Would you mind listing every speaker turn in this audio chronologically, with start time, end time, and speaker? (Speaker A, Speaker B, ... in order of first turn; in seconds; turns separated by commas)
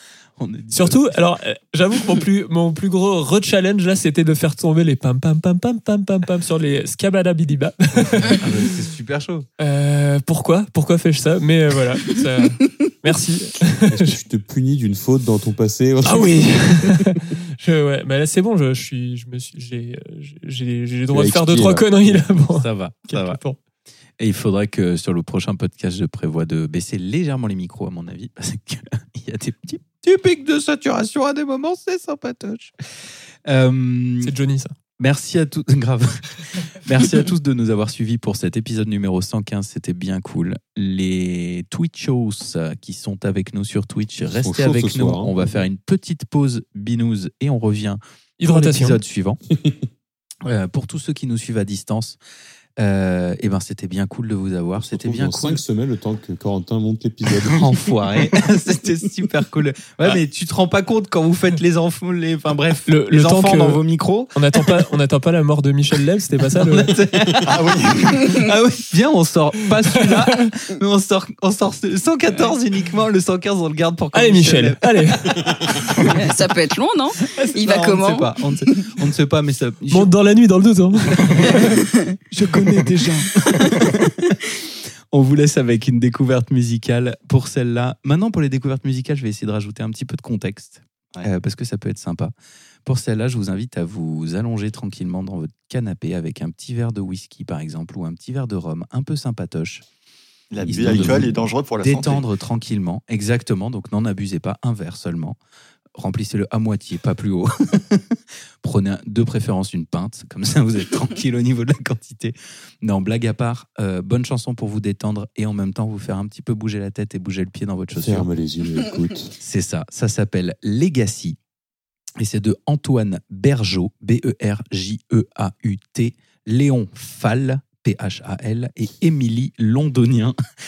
Speaker A: 0.4-1.2, Speaker B: 0.7-8.4, Speaker A: 8.3-9.5, Speaker B: 9.6-14.2, Speaker C: 13.9-17.2, Speaker B: 16.0-23.6, Speaker C: 21.1-22.2, Speaker A: 22.4-23.4, Speaker A: 24.2-32.7, Speaker A: 33.5-34.3, Speaker B: 34.2-34.7, Speaker A: 35.0-49.4, Speaker C: 44.3-45.6, Speaker B: 48.4-49.0, Speaker C: 49.5-49.9, Speaker A: 50.5-52.2, Speaker A: 52.8-55.6, Speaker C: 54.8-57.7, Speaker A: 57.5-64.7, Speaker B: 62.9-63.8, Speaker B: 64.3-67.0, Speaker A: 66.6-75.3, Speaker D: 67.4-68.5, Speaker B: 74.1-75.4, Speaker A: 75.9-76.2, Speaker E: 76.0-78.9, Speaker A: 77.2-80.1, Speaker B: 79.9-81.7, Speaker A: 81.1-81.8, Speaker E: 81.8-82.1, Speaker B: 82.3-83.3, Speaker A: 82.4-84.4, Speaker A: 85.1-92.3, Speaker A: 92.8-99.8, Speaker D: 100.5-102.3, Speaker C: 100.6-101.4, Speaker A: 100.7-105.4, Speaker A: 106.0-118.3, Speaker C: 117.9-119.3, Speaker A: 119.4-121.4, Speaker A: 122.2-130.4